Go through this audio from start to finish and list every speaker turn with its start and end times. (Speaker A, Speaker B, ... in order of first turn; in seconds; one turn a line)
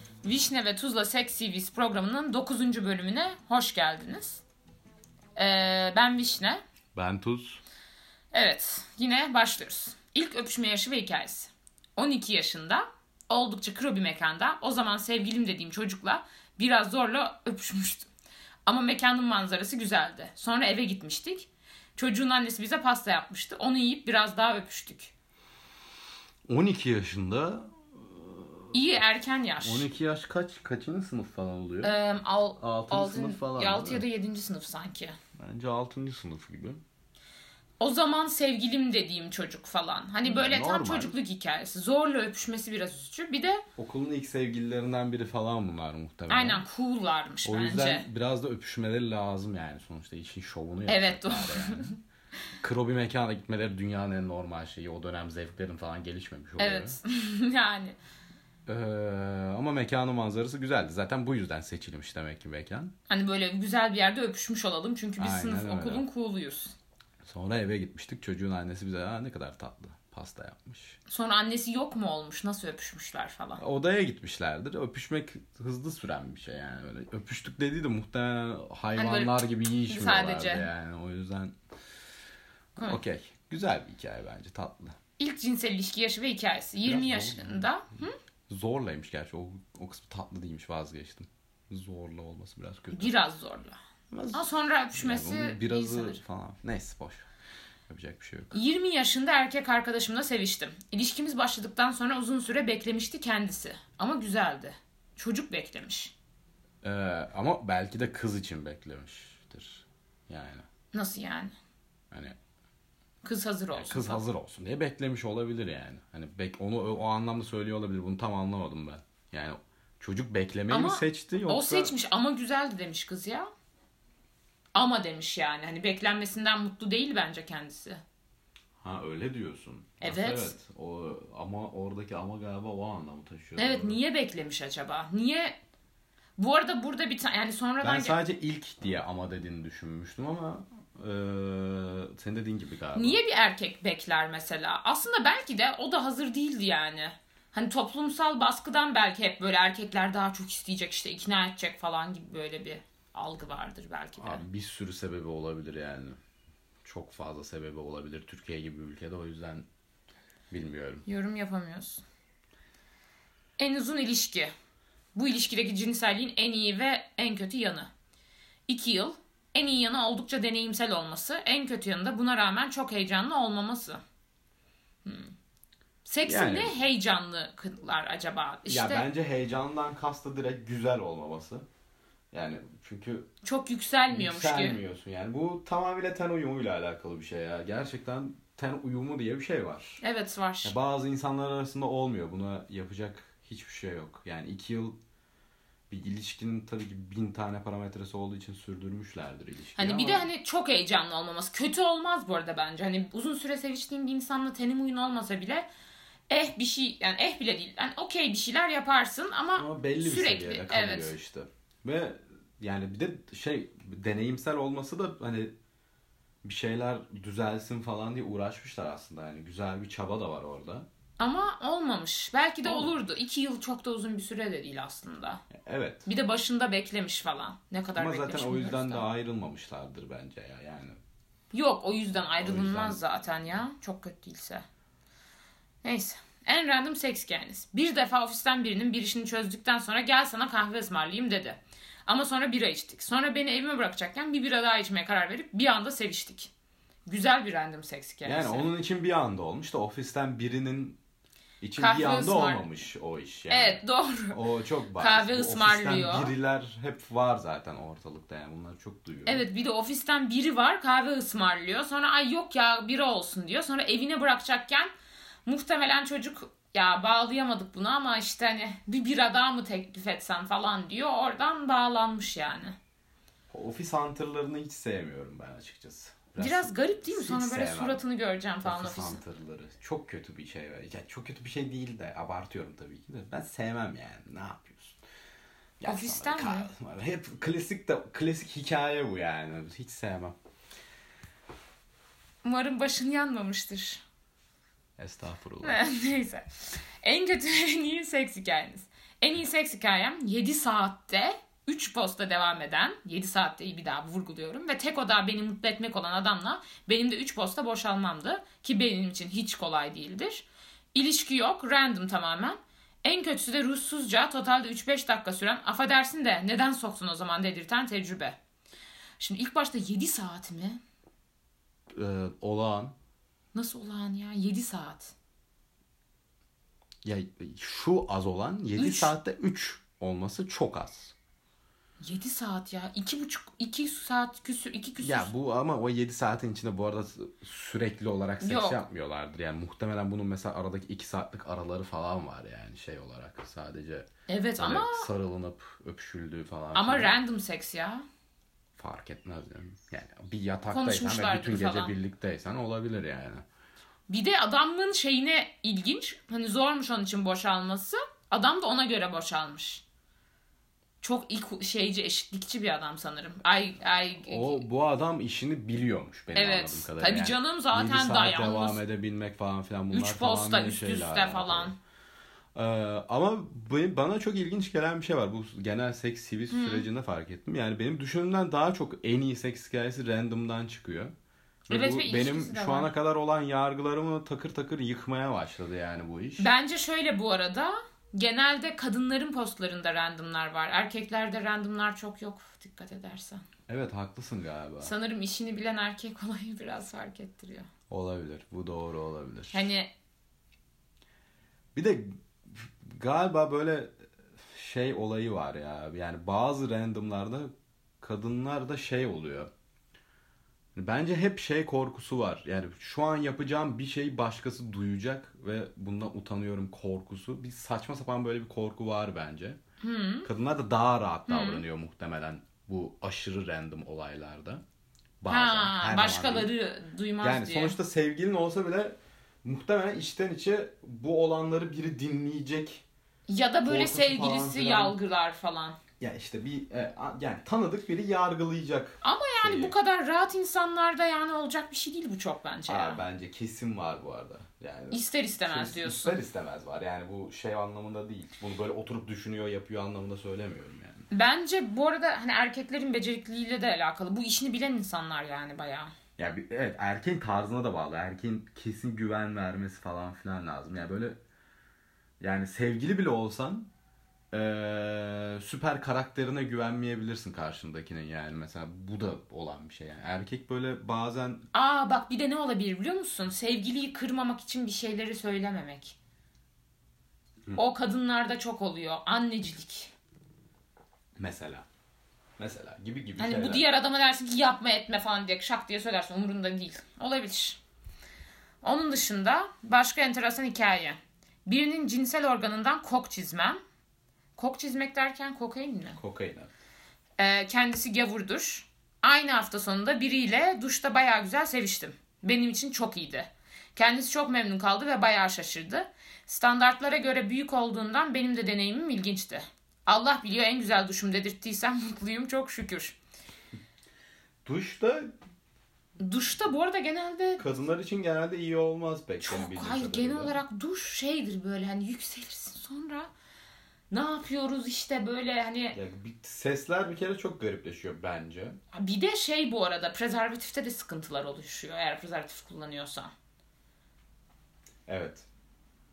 Speaker A: 0.2-4.4
Speaker A: 5.4-6.6
Speaker B: 7.0-7.6
Speaker A: 8.3-18.1
Speaker A: 18.7-25.1
Speaker B: 26.5-29.1
Speaker A: 28.7-29.9
Speaker B: 29.6-32.0
Speaker A: 31.8-35.2
Speaker B: 32.6-34.0
Speaker B: 35.4-36.8
Speaker A: 37.8-43.6
Speaker B: 40.2-41.2
Speaker B: 43.8-46.7
Speaker A: 46.3-48.1
Speaker B: 47.5-52.0
Speaker A: 50.9-52.0
Speaker B: 52.6-57.0
Speaker A: 56.6-58.0
Speaker B: 58.7-62.9
Speaker A: 63.1-66.8
Speaker B: 65.2-66.0
Speaker B: 67.2-71.0
Speaker A: 71.1-73.6
Speaker B: 73.6-81.5
Speaker A: 79.0-80.7
Speaker B: 82.8-85.0
Speaker A: 85.2-88.2
Speaker B: 86.9-87.7
Speaker B: 88.5-93.1
Speaker A: 92.9-93.8
Speaker B: 94.1-97.3
Speaker A: 94.3-96.2
Speaker B: 97.9-98.6
Speaker A: 98.5-106.1
Speaker B: 106.8-110.7
Speaker A: 110.9-111.5
Speaker B: 112.1-112.4
Speaker A: 113.2-114.2
Speaker B: 113.7-121.9
Speaker A: 120.7-123.5
Speaker A: 124.7-128.0
Speaker B: 128.8-134.0
Speaker A: 130.0-130.6
Speaker A: 133.6-135.6
Speaker A: 136.4-138.2
Speaker B: 137.8-143.2
Speaker A: 142.9-154.4
Speaker B: 154.2-156.2
Speaker B: 156.8-159.7
Speaker B: 160.5-161.1
Speaker A: 161.1-162.0
Speaker A: 163.6-164.5
Speaker A: 165.2-167.9
Speaker A: 168.7-174.0
Speaker A: 175.1-175.3
Speaker A: 176.1-179.1
Speaker B: 176.2-176.8
Speaker B: 178.7-181.7
Speaker B: 182.3-183.3
Speaker A: 183.4-184.8
Speaker B: 184.1-190.0
Speaker A: 190.0-190.7
Speaker B: 190.6-195.0
Speaker B: 195.9-200.3
Speaker A: 199.8-205.7
Speaker A: 206.3-211.2
Speaker B: 209.6-215.5
Speaker B: 216.4-220.9
Speaker A: 221.2-225.4
Speaker B: 222.7-222.9
Speaker B: 225.5-226.1
Speaker A: 226.1-229.1
Speaker B: 227.9-231.0
Speaker A: 231.5-234.7
Speaker B: 232.3-233.0
Speaker A: 235.8-246.5
Speaker A: 247.1-248.7
Speaker B: 248.2-251.0
Speaker B: 251.6-259.5
Speaker A: 251.8-252.7
Speaker A: 253.5-254.4
Speaker A: 255.0-256.3
Speaker A: 259.3-264.9
Speaker A: 265.5-272.8
Speaker B: 273.5-278.0
Speaker A: 276.4-279.2
Speaker B: 278.6-285.0
Speaker B: 285.8-290.4
Speaker A: 285.9-286.7
Speaker A: 292.4-294.0
Speaker B: 295.0-295.8
Speaker A: 295.6-318.4
Speaker A: 319.2-320.8
Speaker B: 321.9-322.9
Speaker A: 323.5-325.1
Speaker B: 327.0-331.1
Speaker A: 328.8-329.1
Speaker A: 332.0-335.3
Speaker B: 335.0-347.2
Speaker A: 338.4-338.8
Speaker A: 344.3-345.1
Speaker A: 346.7-348.0
Speaker B: 348.8-353.4
Speaker A: 350.7-351.9
Speaker A: 354.1-359.8
Speaker A: 361.0-364.6
Speaker B: 364.1-371.8
Speaker A: 366.4-368.8
Speaker A: 369.9-371.8
Speaker B: 372.6-381.1
Speaker A: 376.5-376.9
Speaker B: 381.7-386.5
Speaker A: 381.7-382.9
Speaker A: 386.4-393.4
Speaker B: 393.7-394.9
Speaker A: 394.8-397.7
Speaker B: 397.9-399.7
Speaker A: 399.5-399.9
Speaker B: 401.7-407.5
Speaker B: 408.0-409.5
Speaker B: 410.8-419.6
Speaker A: 419.8-420.3
Speaker B: 420.2-424.6
Speaker A: 421.3-421.6
Speaker B: 425.2-426.5
Speaker A: 425.3-427.8
Speaker B: 427.2-432.8
Speaker A: 433.3-435.8
Speaker B: 433.7-435.0
Speaker B: 436.0-439.8
Speaker A: 439.0-443.0
Speaker B: 442.7-451.1
Speaker A: 444.9-446.2
Speaker A: 451.1-455.9
Speaker B: 456.2-461.2
Speaker B: 462.2-463.7
Speaker B: 464.3-471.5
Speaker A: 471.5-476.0
Speaker A: 477.5-479.9
Speaker B: 481.2-481.7
Speaker B: 482.4-483.7
Speaker A: 483.2-487.6
Speaker A: 488.6-493.6
Speaker A: 494.4-496.0
Speaker B: 495.9-496.5
Speaker A: 497.2-513.0
Speaker B: 514.5-515.1
Speaker A: 516.0-517.4
Speaker B: 517.4-520.4
Speaker A: 519.2-523.1
Speaker A: 523.9-525.8
Speaker B: 525.7-528.6
Speaker A: 528.7-533.1
Speaker B: 534.9-535.3